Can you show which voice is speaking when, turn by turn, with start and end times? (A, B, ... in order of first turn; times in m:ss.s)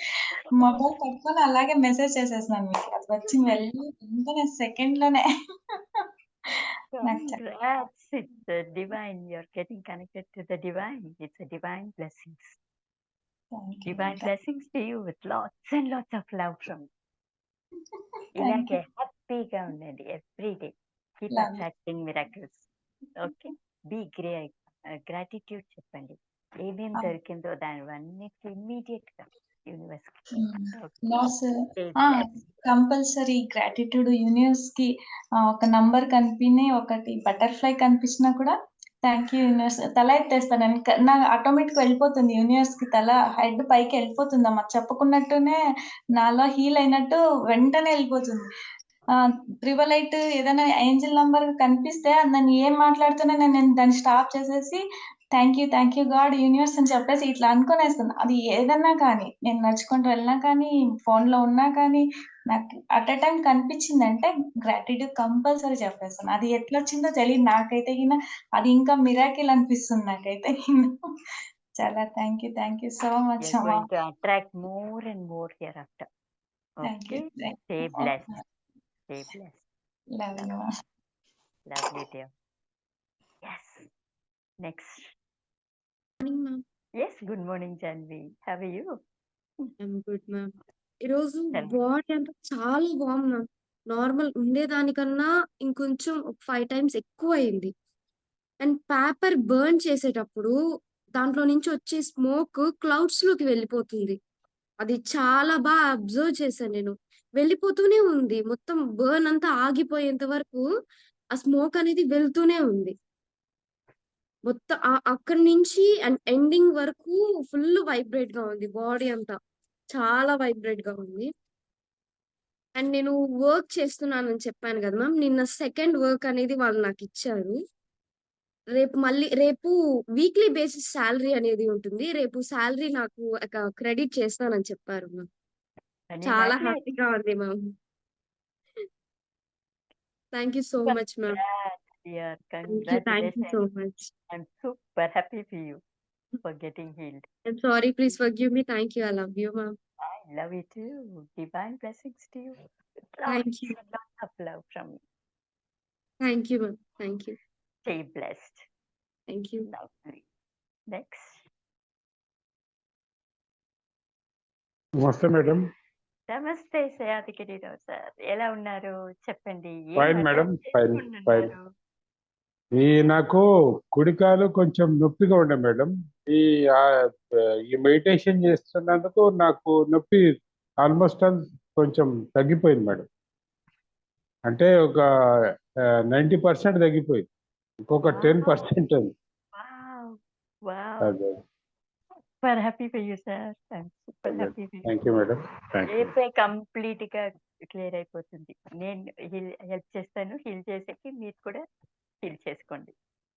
0:00.4-0:00.8 A
0:00.5-0:05.2 B
0:06.9-0:12.6 A
0:07.0-0:07.4 B
0:13.6-0:14.3 B
0:13.9-0:16.9 A
0:18.3-0:22.7 A
0:18.4-0:18.8 B
0:21.3-0:21.6 B
0:23.2-0:32.5 A
0:30.4-0:31.5 B
0:32.0-0:34.9 B
0:35.5-0:38.5 B
0:39.0-0:45.6 B
0:46.2-0:48.4 B
0:49.6-0:54.8 B
0:55.3-1:10.9 B
1:11.8-1:13.8 B
1:13.4-1:16.1 A
1:16.8-1:18.4 A
1:16.9-1:18.2 B
1:19.1-1:19.7 A
1:20.2-1:20.6 B
1:21.7-1:22.3 A
1:23.4-1:23.9 A
1:24.6-1:25.1 A
1:26.2-1:26.6 C
1:27.0-1:28.9 A
1:29.8-1:30.5 C
1:31.0-1:37.7 C
1:38.6-1:40.5 C
1:41.2-1:44.2 C
1:44.8-1:50.6 C
1:51.3-1:52.9 C
1:54.5-1:59.4 C
1:59.9-2:01.3 C
2:02.8-2:07.6 C
2:08.7-2:15.2 C
2:16.1-2:16.8 A
2:16.2-2:17.7 C
2:20.3-2:21.4 C
2:20.8-2:23.6 A
2:22.7-2:24.1 C
2:24.3-2:25.8 A
2:26.4-2:27.2 A
2:27.5-2:29.7 C
2:30.0-2:32.6 A
2:33.1-2:35.0 A
2:33.2-2:33.7 C
2:36.2-2:37.4 C
2:37.8-2:38.6 A
2:39.3-2:39.7 C
2:39.7-2:40.2 A
2:40.9-2:41.5 A
2:45.0-2:45.6 D
2:46.3-2:51.7 A
2:50.0-2:51.5 D
2:52.8-2:53.4 D
2:54.0-2:56.8 D
2:57.7-3:00.2 D
3:00.8-3:03.0 D
3:04.5-3:05.0 D
3:06.1-3:07.2 D
3:07.9-3:09.1 D
3:08.0-3:08.7 A
3:09.5-3:11.2 A
3:11.0-3:11.3 D
3:12.4-3:14.9 A
3:14.2-3:16.1 D
3:15.9-3:21.6 A
3:22.2-3:22.9 A